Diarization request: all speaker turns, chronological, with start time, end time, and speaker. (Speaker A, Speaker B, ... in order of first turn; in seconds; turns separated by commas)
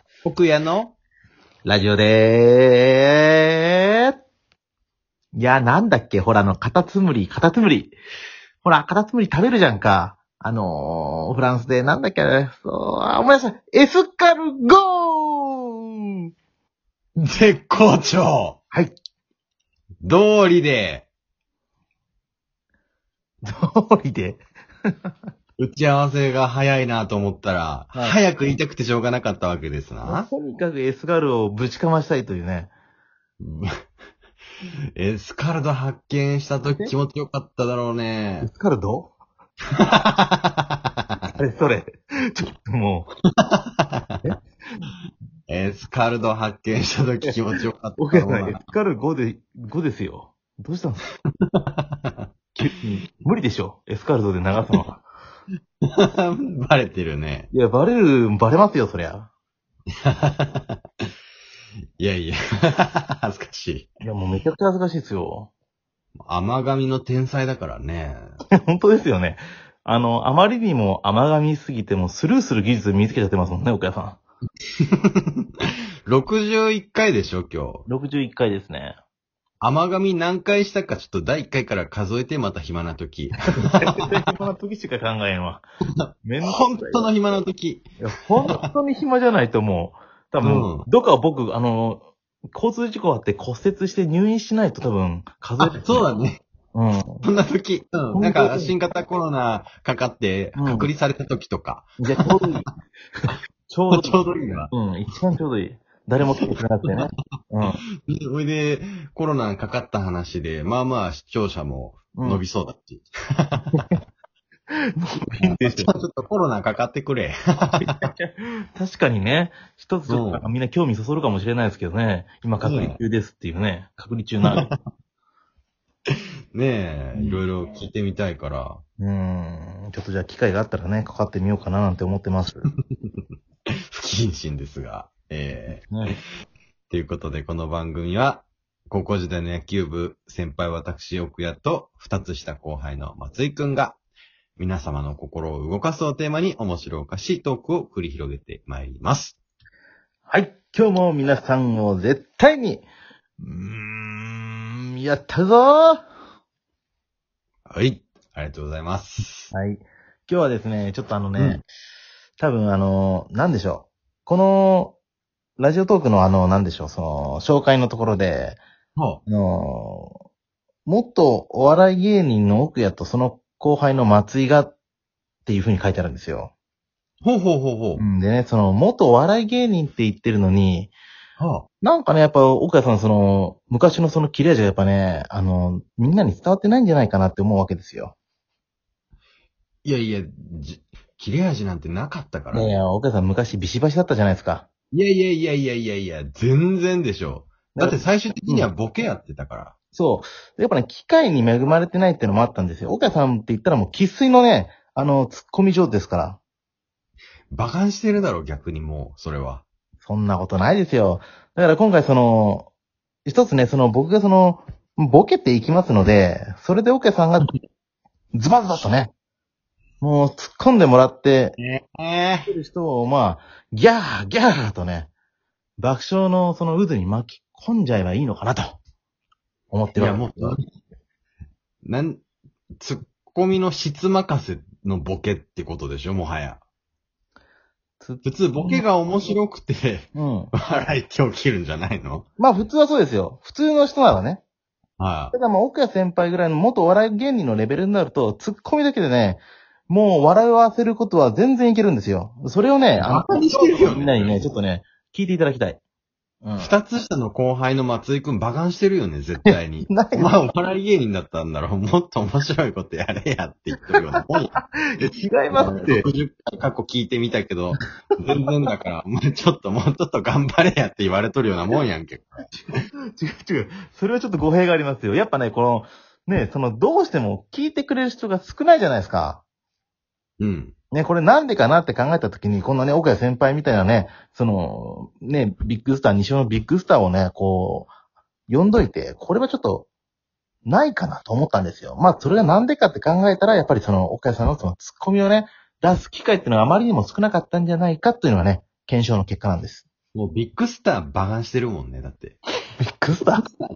Speaker A: 0.2-0.9, Speaker B: 1.7-4.1, Speaker B: 5.3-8.0, Speaker B: 8.6-16.0, Speaker A: 17.2-18.6, Speaker A: 20.0-21.1, Speaker B: 23.4-24.4, Speaker A: 25.6-30.3, Speaker B: 27.9-28.2, Speaker B: 30.0-32.7, Speaker A: 33.4-33.7, Speaker A: 35.0-38.5, Speaker B: 36.6-36.9, Speaker B: 38.4-39.1, Speaker A: 39.8-40.7, Speaker B: 41.4-43.1, Speaker A: 43.4-44.1, Speaker B: 44.2-44.9, Speaker A: 45.5-48.7, Speaker B: 48.0-51.0, Speaker A: 51.6-51.9, Speaker B: 52.6-55.0, Speaker A: 55.9-57.5, Speaker B: 57.5-59.3, Speaker A: 60.0-60.8, Speaker A: 62.0-64.0, Speaker B: 64.0-65.5, Speaker A: 66.3-68.3, Speaker B: 68.7-74.2, Speaker A: 74.9-75.4, Speaker A: 76.1-77.9, Speaker B: 77.9-79.0, Speaker A: 79.6-84.0, Speaker B: 83.5-85.7, Speaker A: 86.0-87.9, Speaker B: 86.3-87.1, Speaker B: 88.0-96.1, Speaker A: 90.4-90.9, Speaker A: 95.6-96.4, Speaker B: 96.7-97.2, Speaker A: 97.2-102.3, Speaker B: 98.1-98.8, Speaker B: 100.6-100.9, Speaker B: 102.0-102.7, Speaker B: 103.2-107.8, Speaker A: 103.9-104.7, Speaker A: 108.1-113.8, Speaker B: 112.2-112.4, Speaker B: 114.7-115.9, Speaker A: 115.3-118.1, Speaker B: 117.8-124.7, Speaker A: 120.1-120.5, Speaker A: 122.6-123.0, Speaker A: 124.5-124.7, Speaker A: 126.5-128.8, Speaker B: 127.2-127.4, Speaker B: 129.0-132.7, Speaker A: 133.9-136.2, Speaker B: 135.9-136.2, Speaker A: 136.9-144.0, Speaker A: 144.6-149.4, Speaker B: 150.3-152.9, Speaker B: 153.4-156.1, Speaker A: 157.7-159.5, Speaker B: 159.5-161.6, Speaker B: 162.4-165.0, Speaker B: 165.6-168.6, Speaker A: 169.0-169.2, Speaker B: 169.3-170.2, Speaker B: 170.9-174.8, Speaker B: 175.5-176.5, Speaker A: 177.2-178.0, Speaker B: 178.0-180.9, Speaker A: 181.4-181.7, Speaker B: 181.8-188.2, Speaker A: 189.8-192.8, Speaker B: 192.5-194.7, Speaker A: 194.9-199.7, Speaker B: 197.8-198.7, Speaker B: 199.9-206.4, Speaker A: 207.5-209.7, Speaker B: 210.0-212.7, Speaker B: 213.2-217.5, Speaker B: 218.3-219.1, Speaker B: 220.0-221.6, Speaker A: 221.6-222.5, Speaker B: 222.5-225.1, Speaker B: 225.8-228.8, Speaker B: 229.7-230.6, Speaker A: 230.0-230.7, Speaker A: 231.8-232.2, Speaker A: 232.8-236.6, Speaker B: 238.0-238.8, Speaker A: 238.2-242.3, Speaker B: 240.2-240.5, Speaker B: 242.4-244.4, Speaker A: 245.0-245.3, Speaker B: 245.3-255.8, Speaker A: 253.0-254.4, Speaker B: 256.4-256.7, Speaker A: 256.6-264.5, Speaker B: 259.4-260.3, Speaker B: 264.6-266.1, Speaker A: 265.5-272.8, Speaker B: 273.2-279.4, Speaker A: 280.4-280.8, Speaker B: 280.9-287.9, Speaker B: 288.5-289.9, Speaker B: 290.6-299.9, Speaker A: 300.1-302.4, Speaker B: 302.8-303.4